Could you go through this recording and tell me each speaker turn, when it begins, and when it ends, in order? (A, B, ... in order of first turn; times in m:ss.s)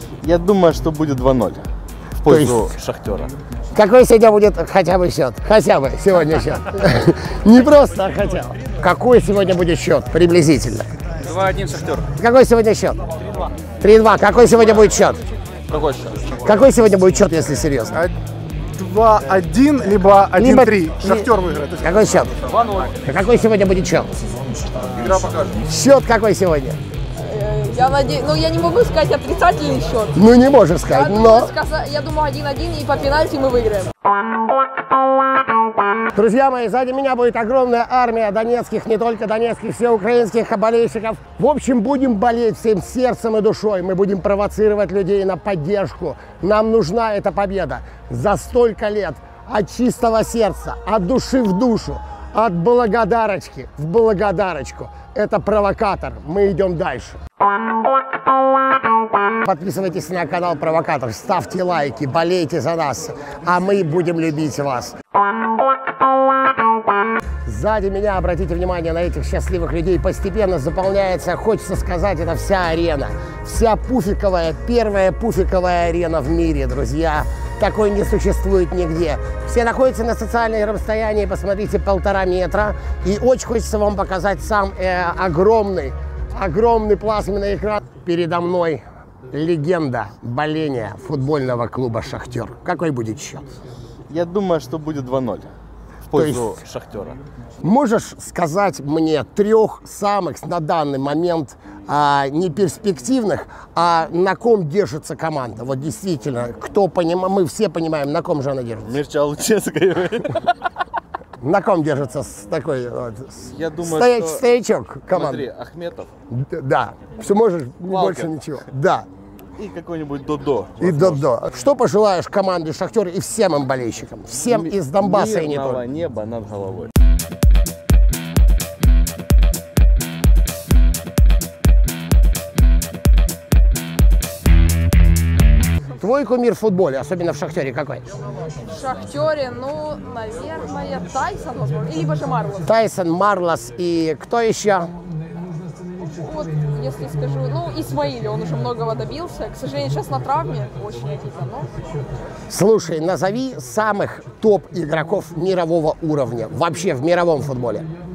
0:00.2-0:01.7 A
0:02.2-0:03.4 A
0:02.2-0:02.8 B
0:03.7-0:10.9 B
0:11.2-0:12.1 A
0:12.1-0:13.0 B
0:13.8-0:15.2 B
0:15.7-0:16.2 A
0:16.4-0:18.0 B
0:17.9-0:22.6 C
0:20.4-0:22.4 B
0:22.5-0:22.9 A
0:23.0-0:24.1 B
0:25.0-0:25.4 A
0:25.5-0:26.8 B
0:27.2-0:30.2 D
0:30.2-0:31.5 B
0:30.9-0:33.9 D
0:36.1-0:57.2 B
0:59.4-1:05.0 B
1:07.4-1:33.5 B
1:34.1-1:35.5 A
1:36.1-1:37.2 A
1:36.1-1:36.6 B
1:37.6-1:49.0 B
1:48.9-1:50.5 A
1:51.4-1:55.5 B
1:53.5-1:54.4 A
1:55.1-1:56.1 A
1:56.3-1:59.1 B
1:57.9-1:58.3 A
1:59.6-2:01.2 A
2:00.8-2:05.8 B
2:04.4-2:06.9 A
2:16.0-2:18.0 B
2:18.6-2:22.7 D
2:22.6-2:24.9 B
2:26.1-2:31.7 D
2:32.5-2:37.9 B